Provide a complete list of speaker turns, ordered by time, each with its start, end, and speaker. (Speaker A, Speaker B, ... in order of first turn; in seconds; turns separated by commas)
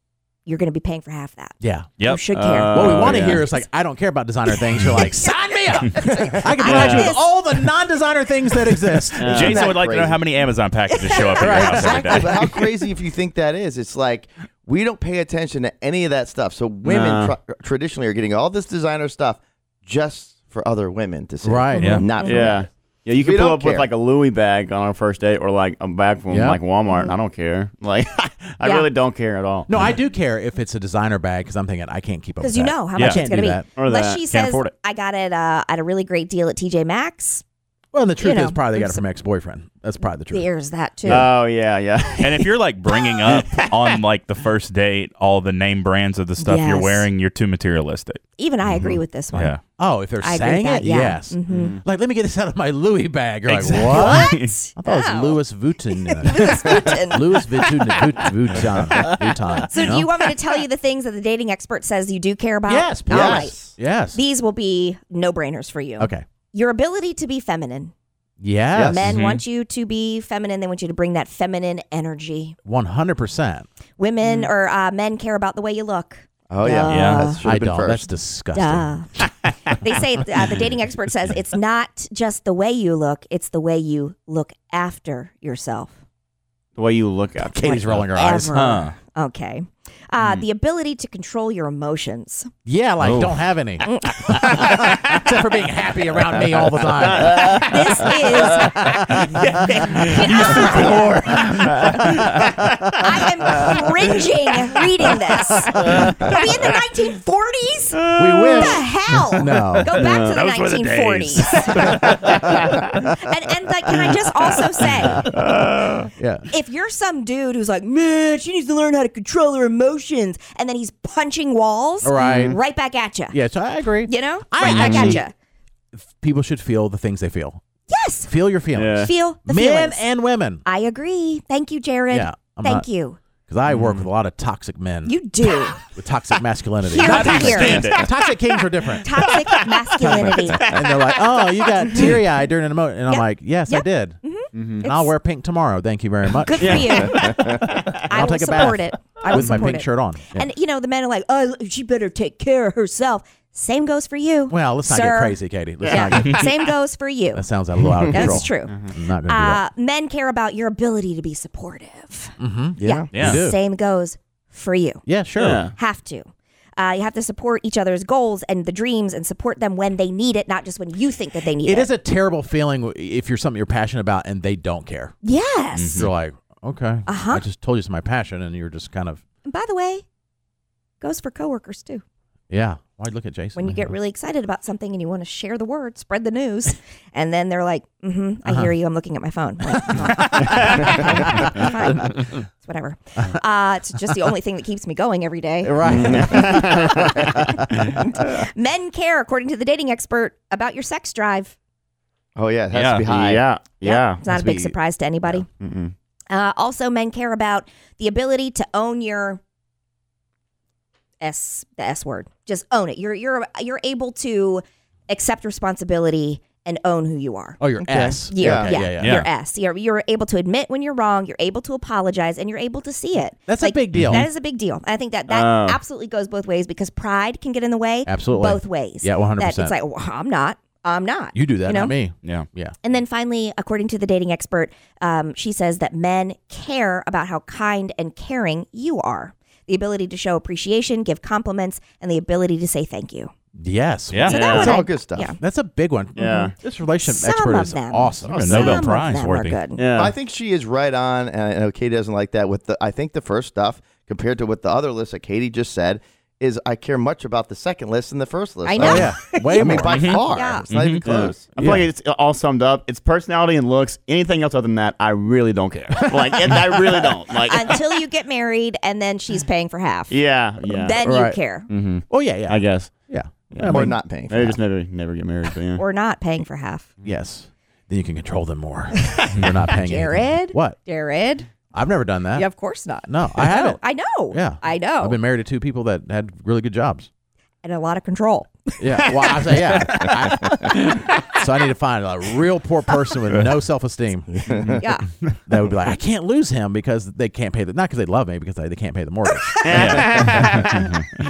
Speaker A: 0.5-3.6, Speaker B: 1.6-1.9, Speaker C: 2.3-3.5, Speaker B: 2.7-9.4, Speaker A: 4.7-5.2, Speaker A: 5.9-7.3, Speaker D: 6.1-6.4, Speaker C: 6.6-7.2, Speaker C: 9.2-9.7, Speaker D: 9.2-10.2, Speaker E: 9.3-12.4, Speaker A: 10.9-11.5, Speaker B: 11.4-12.6, Speaker D: 11.4-23.9, Speaker C: 16.8-17.3, Speaker B: 21.4-22.1, Speaker E: 21.7-22.1, Speaker A: 21.8-22.6, Speaker C: 22.2-29.8, Speaker B: 26.3-26.6, Speaker A: 28.6-28.9, Speaker B: 29.7-33.7, Speaker A: 32.4-37.4, Speaker E: 33.0-33.2, Speaker C: 33.8-34.7, Speaker B: 37.9-40.5, Speaker A: 38.2-39.0, Speaker A: 40.3-41.3, Speaker B: 41.0-41.3, Speaker C: 41.1-42.5, Speaker E: 42.2-48.2, Speaker C: 43.2-43.8, Speaker A: 46.4-47.1, Speaker A: 48.4-49.6, Speaker C: 48.7-49.0, Speaker E: 49.3-49.6, Speaker B: 49.8-60.1, Speaker A: 50.2-51.8, Speaker C: 51.5-51.8, Speaker E: 53.5-54.3, Speaker A: 53.9-55.4, Speaker C: 54.1-54.5, Speaker A: 56.0-58.0, Speaker C: 58.5-59.1, Speaker A: 59.7-63.6, Speaker B: 62.7-64.2, Speaker D: 63.1-63.7, Speaker A: 64.1-67.9, Speaker B: 66.0-66.3, Speaker B: 68.4-69.2, Speaker D: 68.7-69.2, Speaker A: 68.9-72.6, Speaker E: 69.0-69.4, Speaker B: 72.7-73.7, Speaker A: 74.0-77.4, Speaker D: 76.5-78.1, Speaker E: 76.9-77.3, Speaker B: 77.4-79.0, Speaker A: 78.5-79.1, Speaker A: 79.7-85.9, Speaker C: 86.8-88.0, Speaker B: 87.4-88.6, Speaker A: 87.6-92.5, Speaker E: 88.5-89.0, Speaker C: 90.2-90.5, Speaker B: 92.7-102.8, Speaker E: 93.0-93.4, Speaker A: 93.8-94.1, Speaker C: 97.0-97.7, Speaker A: 97.4-98.8, Speaker C: 98.6-102.9, Speaker A: 100.0-101.5, Speaker E: 100.1-100.6, Speaker A: 103.0-115.3, Speaker B: 105.5-106.1, Speaker C: 105.8-106.5, Speaker C: 107.9-108.8, Speaker B: 108.2-109.9, Speaker C: 109.9-110.4, Speaker E: 110.1-112.0, Speaker C: 111.4-112.9, Speaker B: 112.0-113.0, Speaker C: 115.1-116.1, Speaker B: 116.2-116.5, Speaker A: 116.5-123.4, Speaker B: 122.0-122.6, Speaker C: 122.2-122.6, Speaker B: 123.3-125.2, Speaker A: 124.1-125.3, Speaker C: 124.6-125.2, Speaker B: 125.9-127.6, Speaker A: 127.9-128.3, Speaker B: 128.3-130.6, Speaker C: 128.8-129.1, Speaker A: 129.0-130.1, Speaker A: 130.7-133.2, Speaker B: 132.1-132.9, Speaker B: 133.5-135.2, Speaker C: 133.7-134.1, Speaker A: 135.1-135.8, Speaker B: 135.7-139.4, Speaker A: 136.8-138.1, Speaker E: 137.0-137.9, Speaker C: 137.3-138.1, Speaker A: 139.0-140.7, Speaker C: 139.2-141.4, Speaker B: 140.0-144.2, Speaker A: 141.9-142.2, Speaker A: 143.1-145.1, Speaker C: 144.5-144.8, Speaker B: 144.8-150.5, Speaker A: 146.4-155.4, Speaker C: 146.6-148.0, Speaker B: 154.5-156.5, Speaker C: 155.8-156.5, Speaker A: 155.9-157.4, Speaker B: 157.3-159.6, Speaker C: 158.0-158.9, Speaker A: 158.1-165.0, Speaker B: 162.4-163.6, Speaker D: 162.8-163.1, Speaker E: 163.1-163.4, Speaker B: 165.1-165.7, Speaker C: 165.4-165.7, Speaker A: 165.8-171.9, Speaker B: 171.6-175.1, Speaker A: 175.2-176.1, Speaker E: 175.8-176.1, Speaker B: 176.0-179.2, Speaker A: 177.1-177.4, Speaker A: 179.5-180.0, Speaker A: 181.0-182.0, Speaker B: 182.5-183.9, Speaker A: 183.6-197.4, Speaker B: 189.8-191.3, Speaker B: 195.6-197.6, Speaker C: 195.8-198.0, Speaker A: 197.9-201.6, Speaker D: 202.4-203.4, Speaker E: 202.7-203.1, Speaker C: 203.1-204.2, Speaker A: 203.8-205.5, Speaker B: 204.3-204.7, Speaker C: 205.6-205.9, Speaker A: 206.3-209.4, Speaker A: 211.2-217.6, Speaker B: 217.6-219.3, Speaker D: 217.8-218.8, Speaker A: 218.3-231.9, Speaker E: 218.9-219.3, Speaker B: 223.5-224.3, Speaker E: 223.9-224.2, Speaker C: 225.3-225.8, Speaker B: 228.1-229.8, Speaker B: 231.3-232.8, Speaker A: 232.8-243.3, Speaker B: 243.6-244.8, Speaker E: 244.1-244.5, Speaker A: 244.3-245.4, Speaker C: 244.3-244.8, Speaker D: 244.4-245.3, Speaker B: 245.4-248.9, Speaker C: 246.2-246.6, Speaker A: 246.2-246.5, Speaker A: 247.0-249.8, Speaker E: 248.3-249.6, Speaker C: 249.8-250.1, Speaker D: 250.0-261.5, Speaker A: 258.6-260.7, Speaker B: 258.8-260.0, Speaker E: 259.9-261.1, Speaker C: 261.0-267.8, Speaker B: 261.6-261.9, Speaker A: 267.5-271.7, Speaker C: 270.1-271.0, Speaker B: 271.0-271.4, Speaker C: 271.7-272.9, Speaker B: 272.1-274.6, Speaker C: 273.5-275.8, Speaker D: 273.6-274.5, Speaker A: 275.8-276.9, Speaker B: 277.0-280.8, Speaker A: 279.8-281.5, Speaker B: 281.7-287.1, Speaker A: 282.4-285.2, Speaker A: 287.6-289.5, Speaker B: 288.8-294.8, Speaker C: 289.1-290.3, Speaker A: 294.8-295.1, Speaker B: 295.5-300.5, Speaker A: 299.5-299.9, Speaker C: 299.7-300.9, Speaker E: 299.7-300.1, Speaker E: 300.6-301.0